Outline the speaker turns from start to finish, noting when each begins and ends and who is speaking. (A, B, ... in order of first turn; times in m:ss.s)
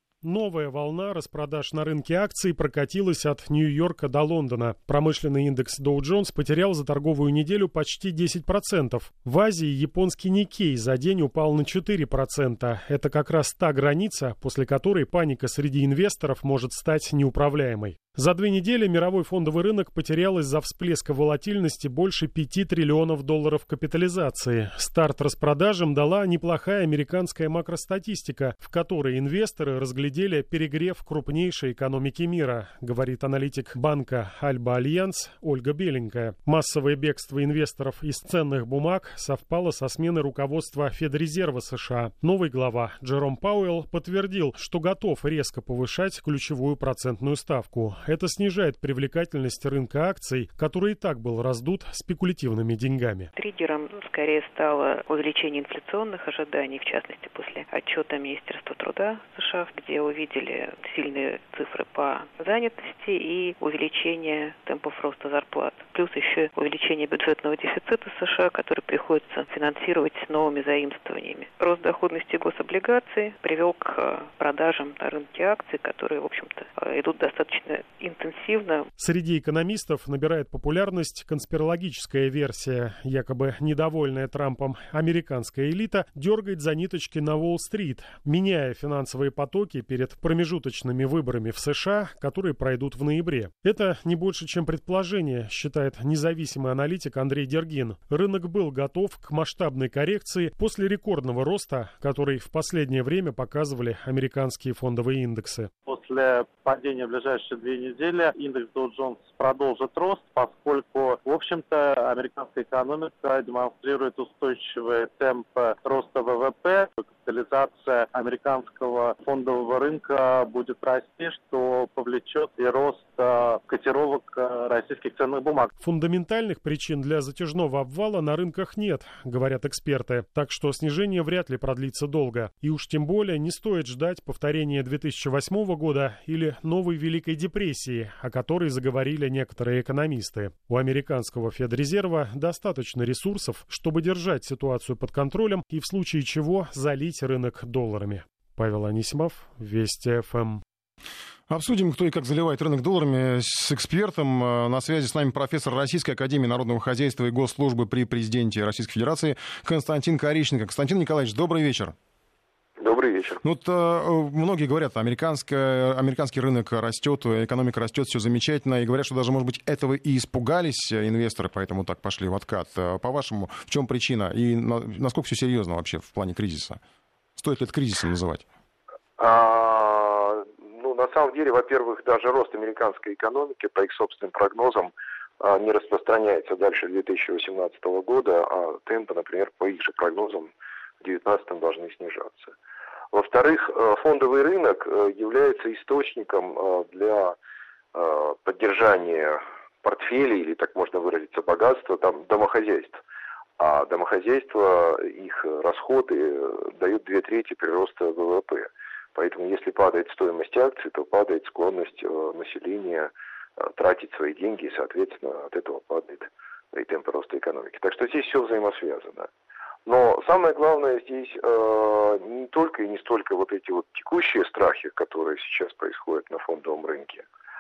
0:00.2-0:53.3 A
0:53.4-1:18.9 B
1:19.0-1:45.7 A
1:45.9-2:05.7 C
2:05.8-2:30.6 A
2:31.5-2:42.0 D
2:42.8-2:43.4 E
2:43.4-2:56.8 D
2:57.4-2:58.4 D
2:59.2-3:12.5 E
3:13.1-3:17.4 E
3:17.9-3:23.0 E
3:23.6-3:39.3 E
3:39.9-3:47.2 E